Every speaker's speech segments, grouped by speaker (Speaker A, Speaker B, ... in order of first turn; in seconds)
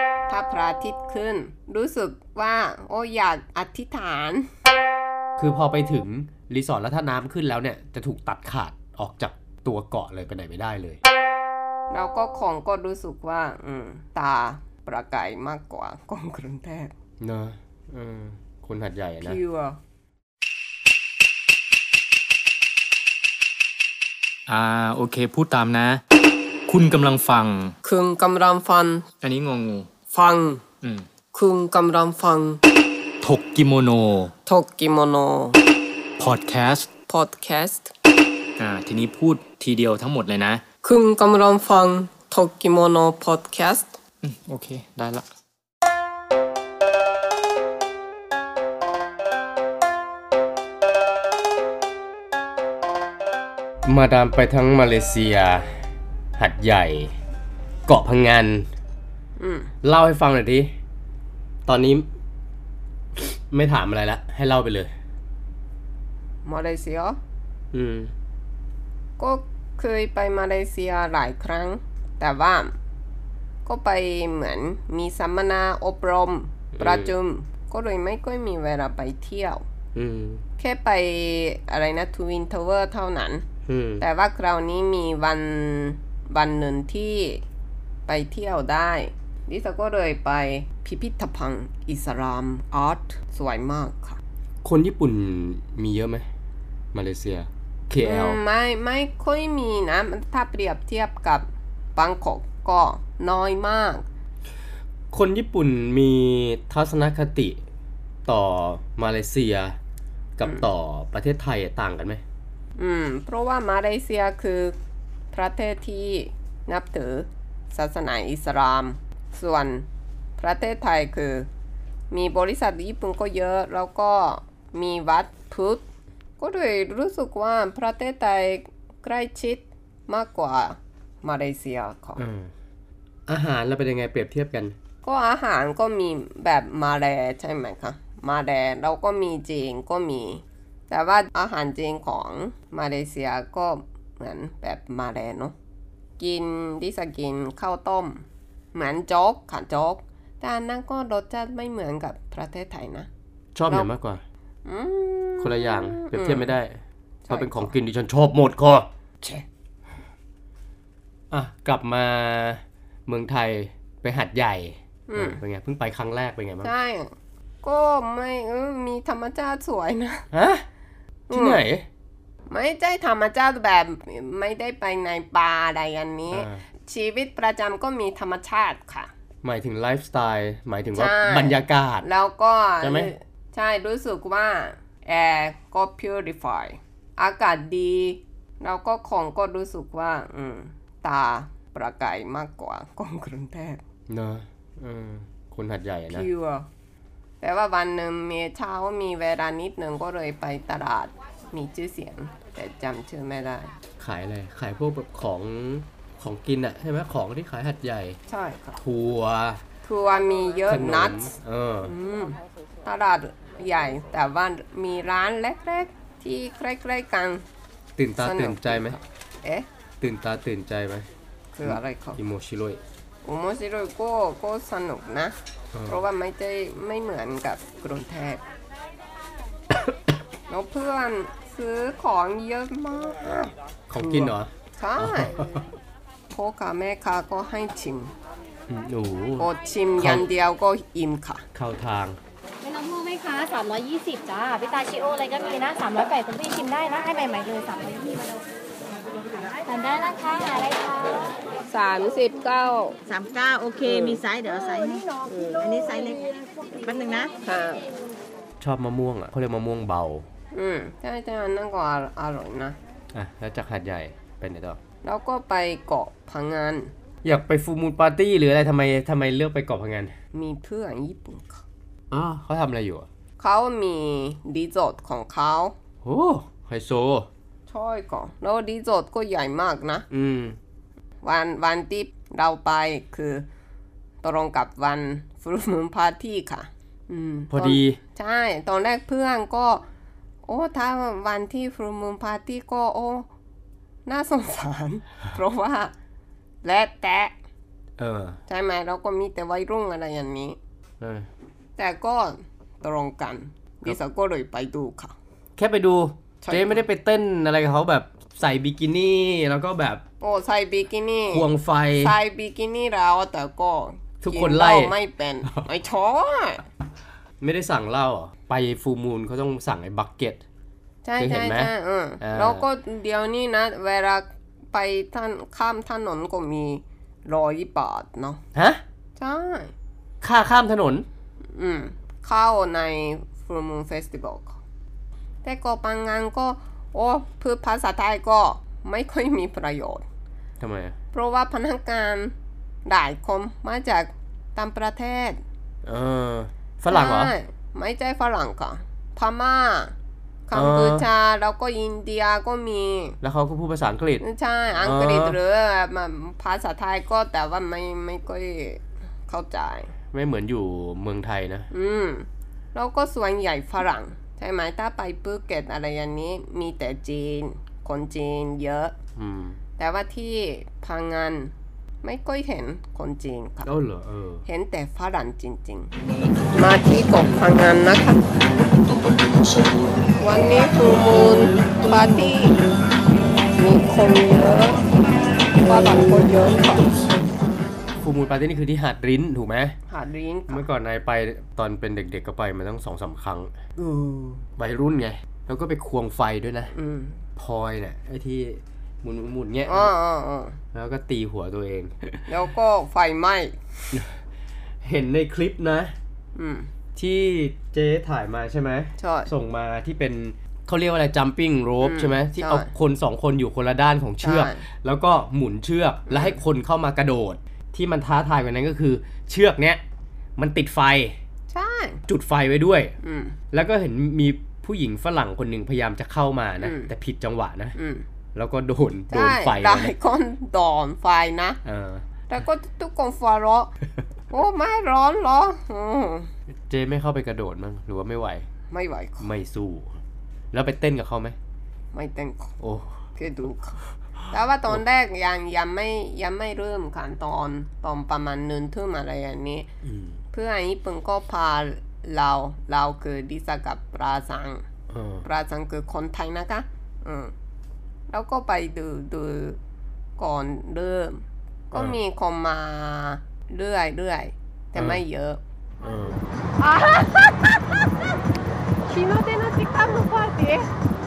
Speaker A: 0.3-4.5, 11.9-16.9, 19.2-19.8, 27.8-29.1, 30.1-30.6, 31.3-32.6, 34.5-35.6, 37.1-37.9, 40.8-43.9, 59.4-59.7, 66.4-67.2, 69.2-72.7, 73.6-79.6, 80.6-83.4, 84.0-87.4, 88.1-94.2, 98.0-104.0, 112.8-114.8, 115.3-119.9, 120.4-121.5, 122.1-125.8, 126.4-132.2, 135.0-145.5, 146.2-153.1, 154.7-156.6, 157.2-157.7, 165.1-165.4, 166.6-170.2, 171.3-171.6, 172.5-179.1, 180.9-193.8, 196.1-196.7, 197.4-203.7, 208.3-208.8, 209.8-211.3, 211.8-217.4, 218.2-219.7, 221.5-222.2, 223.2-225.3, 225.9-228.4, 230.5-235.6, 236.3-238.1, 239.4-241.4, 251.7-253.0, 257.4-257.9, 260.5-262.8, 265.0-266.9, 270.3-271.6, 273.4-275.7, 277.7-280.1, 281.2-283.5, 284.2-289.9, 290.4-293.3, 294.1-295.9, 296.6-297.3, 298.5-300.6, 301.8-305.1, 306.4-306.9, 310.2-311.5, 312.0-316.6, 321.0-328.4, 329.2-329.7, 331.5-334.6, 335.4-340.0, 341.1-342.3, 342.9-345.4, 346.9-349.9, 350.5-353.2, 354.2-359.9, 361.7-368.9, 369.8-373.7, 374.4-375.9, 376.5-378.3, 380.2-382.6, 383.6-384.8, 385.6-386.9, 389.9-390.6, 393.8-394.5, 396.7-397.2, 399.7-400.6, 402.3-403.9, 406.4-406.7, 409.0-409.3, 411.8-412.7, 414.2-414.6, 416.1-416.4, 421.5-422.0, 423.0-423.4, 426.6-426.9, 427.8-428.1, 429.1-431.6, 432.3-433.7, 434.3-436.3, 438.7-439.3, 441.9-442.6, 443.2-443.8, 444.3-449.7, 450.3-454.6, 455.2-457.3, 458.1-459.6, 460.2-465.4, 466.6-468.1, 468.9-470.7
Speaker B: 5.4-11.0, 17.2-19.4, 53.8-55.7, 56.4-57.1, 57.9-58.7, 59.8-60.7, 61.7-62.0, 63.1-64.9, 67.7-68.1, 76.7-77.1, 79.9-80.4, 83.7-84.0, 94.6-96.3, 96.9-98.4, 105.1-107.6, 108.2-109.8, 110.4-112.2, 132.2-132.5, 133.3-134.7, 153.5-154.2, 155.4-159.4, 161.3-166.7, 170.3-170.6, 171.3-171.9, 176.3-176.6, 179.4-182.1, 182.8-183.1, 194.1-196.3, 204.0-208.2, 208.8-209.6, 210.7-211.9, 218.0-219.0, 220.0-221.1, 221.6-222.8, 225.7-226.0, 233.9-235.7, 238.7-240.2, 241.5-242.2, 258.6-260.3, 263.1-264.8, 267.2-270.1, 272.1-273.1, 276.0-277.3, 280.1-280.6, 287.5-288.0, 298.0-298.4, 301.0-301.3, 305.6-310.0, 311.3-312.1, 314.2-314.9, 317.4-320.4, 321.2-321.7, 322.2-322.6, 328.5-328.8, 330.2-331.1, 340.6-340.9, 345.8-347.3, 350.5-351.1, 353.2-354.2, 354.8-355.4, 360.1-361.7, 369.1-369.6, 373.6-374.4, 388.0-389.8, 390.5-393.5, 394.6-396.7, 397.4-399.9, 400.7-402.2, 404.8-405.9, 406.9-419.8, 420.4-421.2, 422.1-422.9, 423.5-427.8, 428.3-429.9, 431.6-432.0, 436.6-438.4, 439.2-439.9, 440.5-441.4, 442.6-443.0, 449.8-450.2, 454.9-455.3, 464.8-465.0, 465.8-466.2
Speaker C: 24.5-26.0, 26.7-27.7, 29.2-29.9, 30.8-31.1, 33.2-34.3, 36.2-36.9, 38.6-40.6, 44.2-45.2, 245.6-246.0
Speaker D: 242.7-248.4, 249.6-251.1
Speaker E: 253.1-257.3